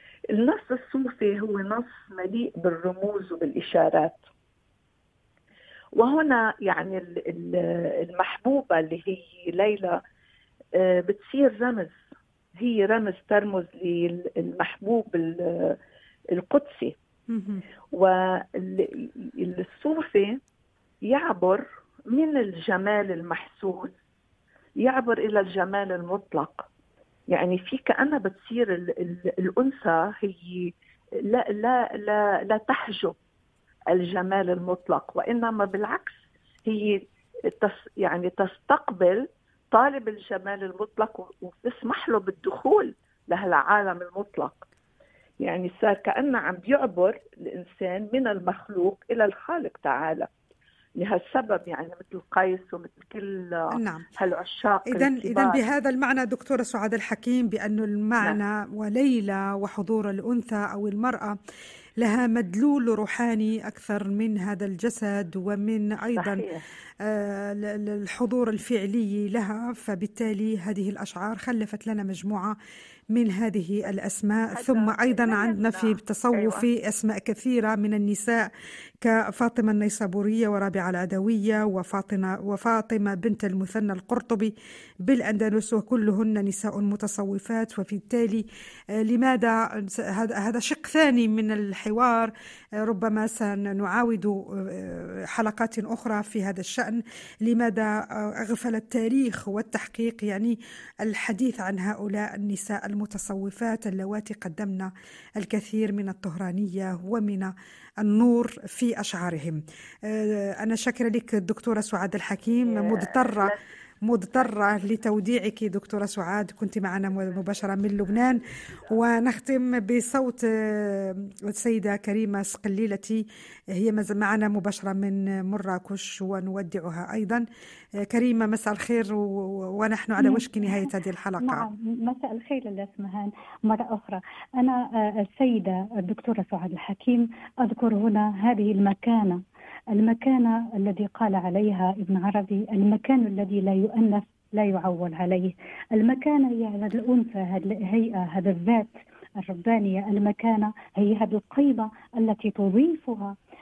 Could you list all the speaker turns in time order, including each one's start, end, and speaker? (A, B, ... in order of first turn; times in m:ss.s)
0:00.3-0:04.2 A
0:05.9-0:10.0 A
0:10.8-0:12.0 A
0:12.6-0:15.8 A
0:16.3-0:17.0 A
0:17.3-0:17.6 B
0:17.9-0:20.4 A
0:21.0-0:23.9 A
0:24.8-0:26.6 A
0:27.3-0:30.7 A
0:31.2-0:33.2 A
0:33.9-0:44.6 A
0:45.4-0:50.3 A
0:51.0-0:55.6 A
0:53.7-0:54.1 B
0:54.9-1:01.4 B
1:02.0-1:06.4 B
1:06.1-1:06.6 A
1:07.0-1:12.6 B
1:13.1-1:24.5 B
1:14.5-1:16.6 A
1:25.0-1:28.4 B
1:29.0-1:53.5 B
1:52.6-1:53.6 A
1:54.0-2:07.4 B
1:57.2-1:58.9 A
2:08.0-2:11.6 B
2:10.2-2:10.9 C
2:11.4-2:19.4 C
2:19.9-2:33.4 C